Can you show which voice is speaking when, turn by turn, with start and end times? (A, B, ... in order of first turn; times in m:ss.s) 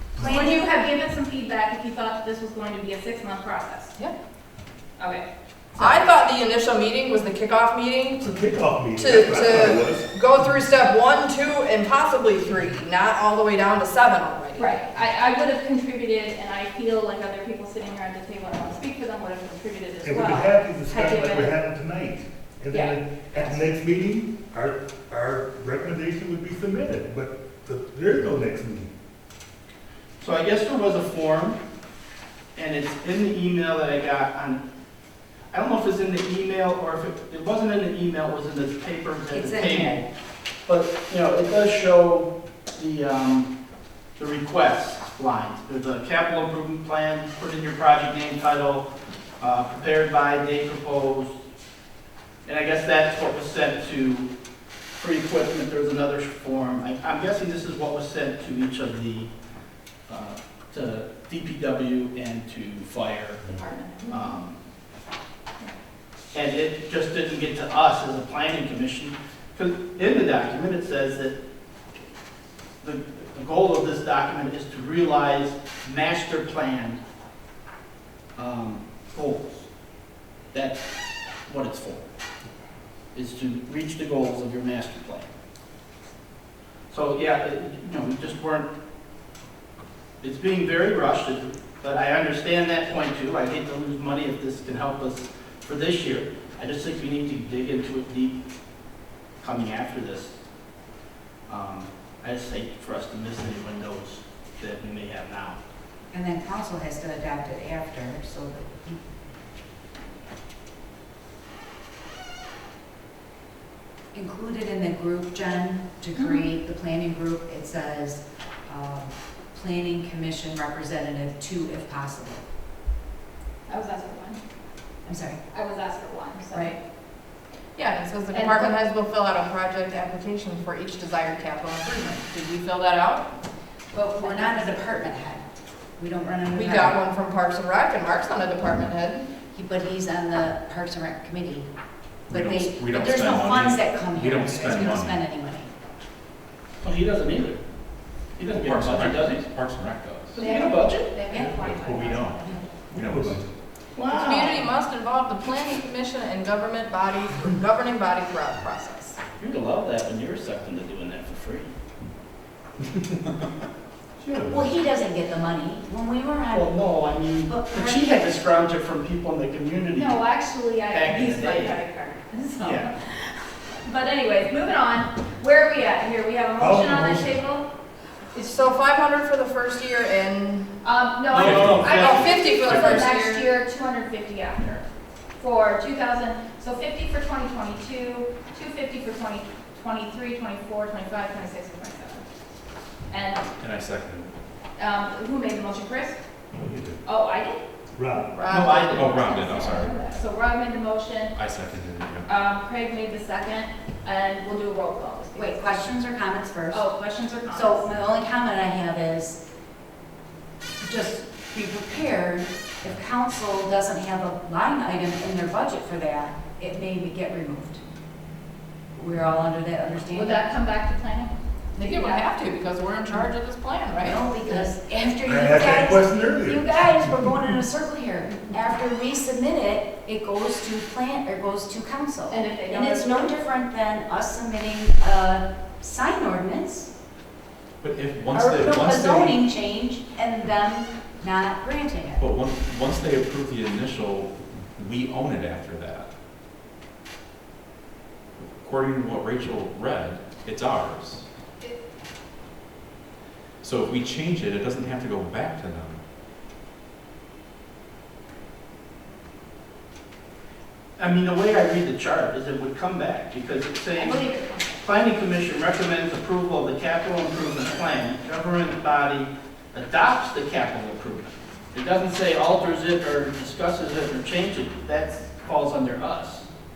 0:00.2-0:00.7 A
0:00.2-0:04.0 B
0:05.0-0:05.3 B
0:05.8-0:08.3 C
0:08.2-0:10.1 D
0:09.0-0:14.9 C
0:14.6-0:21.6 B
0:20.0-0:28.9 D
0:22.7-0:23.6 B
0:30.2-0:31.6 E
0:32.6-0:34.6 E
0:35.5-0:40.0 E
0:39.3-0:40.0 A
0:40.7-0:43.5 E
0:44.2-0:48.9 E
0:49.4-0:51.4 E
0:52.4-0:54.3 E
0:55.0-0:59.3 E
1:00.1-1:03.5 E
1:03.5-1:04.3 B
1:04.1-1:04.6 E
1:06.3-1:11.4 E
1:12.8-1:17.0 E
1:18.4-1:19.7 E
1:20.5-1:20.9 E
1:21.5-1:22.1 E
1:23.1-1:25.3 E
1:26.9-1:28.7 E
1:30.2-1:38.4 E
1:39.4-1:40.4 E
1:41.5-1:45.6 E
1:46.1-1:49.0 A
1:54.1-2:02.4 A
2:03.7-2:04.4 B
2:05.1-2:05.4 A
2:05.5-2:06.8 B
2:07.8-2:13.3 C
2:08.3-2:08.8 B
2:13.9-2:15.4 A
2:14.2-2:14.7 B
2:16.0-2:17.0 A
2:16.5-2:19.3 C
2:19.5-2:21.7 A
2:22.3-2:25.2 F
2:22.3-2:25.7 A
2:26.8-2:27.6 E
2:28.4-2:29.4 E
2:28.4-2:30.4 F
2:30.3-2:31.2 E
2:30.4-2:32.7 B
2:31.3-2:33.4 F
2:32.9-2:33.5 D
2:34.0-2:34.6 E
2:34.1-2:39.2 C
2:39.4-2:41.7 E
2:44.2-2:44.7 D
2:44.5-2:46.8 A
2:46.5-2:50.2 E
2:47.4-2:48.2 A
2:50.0-2:57.7 B
2:50.9-2:51.8 E
2:52.6-2:52.9 E
2:56.6-2:57.4 D
2:58.3-3:00.7 C
3:00.8-3:04.8 B
3:01.3-3:03.1 E
3:01.4-3:01.9 F
3:01.4-3:03.5 C
3:02.7-3:03.0 F
3:05.4-3:12.2 B
3:13.1-3:13.5 B
3:13.6-3:14.3 F
3:14.8-3:16.2 B
3:16.6-3:17.0 D
3:17.0-3:17.6 B
3:18.0-3:18.3 D
3:18.4-3:19.2 C
3:18.5-3:21.4 B
3:18.5-3:19.1 E
3:18.9-3:20.0 F
3:21.3-3:22.3 F
3:22.3-3:25.9 B
3:25.3-3:26.9 A
3:26.7-3:27.8 B
3:27.5-3:29.4 A
3:30.8-3:37.8 A
3:39.0-3:40.4 A
3:40.1-3:42.3 B
3:41.8-3:44.2 C
3:44.0-3:56.9 A
3:45.2-3:47.2 D
3:52.3-3:53.4 B
3:57.8-3:59.4 F
3:58.3-4:02.2 A
4:02.2-4:06.1 F
4:08.4-4:11.3 F
4:13.6-4:16.0 F
4:21.0-4:36.4 E
4:23.9-4:24.8 B